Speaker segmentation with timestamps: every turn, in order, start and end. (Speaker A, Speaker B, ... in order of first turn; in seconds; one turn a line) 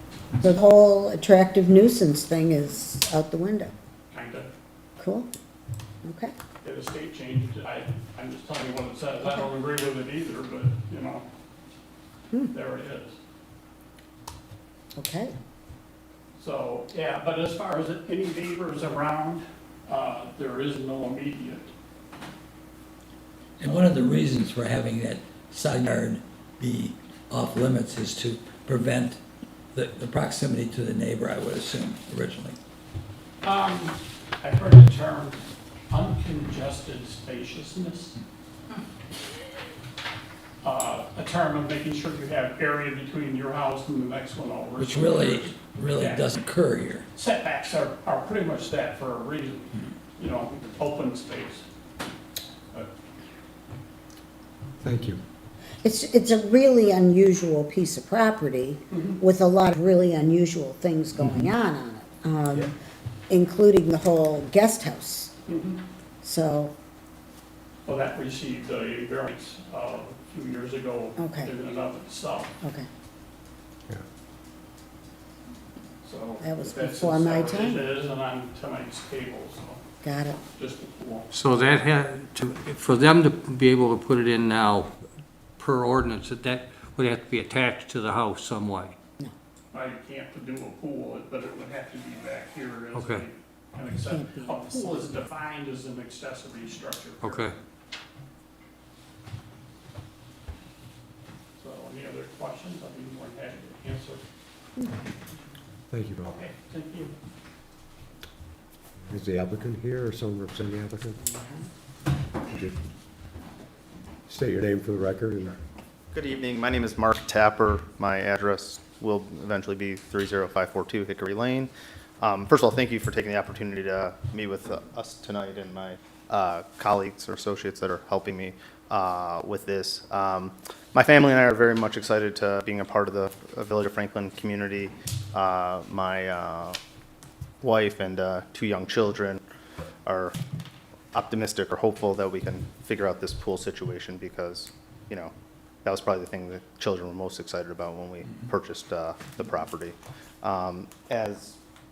Speaker A: 0.4-3.7
Speaker B: 4.1-4.5
Speaker A: 5.0-5.3
Speaker A: 6.0-6.3
Speaker B: 6.6-11.2
Speaker B: 12.5-13.1
Speaker A: 14.9-15.3
Speaker B: 16.4-21.7
Speaker C: 23.6-29.2
Speaker C: 29.7-32.6
Speaker B: 33.4-35.4
Speaker B: 35.9-38.2
Speaker B: 40.6-46.2
Speaker C: 44.8-47.0
Speaker B: 47.1-51.6
Speaker D: 54.8-55.2
Speaker A: 55.8-62.7
Speaker D: 61.2-61.5
Speaker A: 63.3-65.3
Speaker B: 65.5-65.8
Speaker A: 66.2-66.7
Speaker B: 67.8-72.5
Speaker A: 71.2-71.5
Speaker A: 72.6-72.9
Speaker B: 76.0-79.8
Speaker A: 76.4-77.9
Speaker A: 80.0-80.4
Speaker B: 80.5-81.3
Speaker E: 81.3-85.0
Speaker E: 85.6-89.0
Speaker B: 89.7-97.5
Speaker E: 92.9-93.2
Speaker A: 94.0-95.2
Speaker E: 97.2-97.5
Speaker B: 101.6-104.2
Speaker D: 105.9-106.3
Speaker B: 106.2-107.1
Speaker D: 109.1-111.2
Speaker A: 111.2-111.7
Speaker D: 112.5-112.7
Speaker D: 114.3-115.6
Speaker F: 116.1-136.8
Speaker F: 137.6-139.4
Speaker F: 140.1-140.3
Speaker F: 141.1-145.3
Speaker F: 145.8-151.6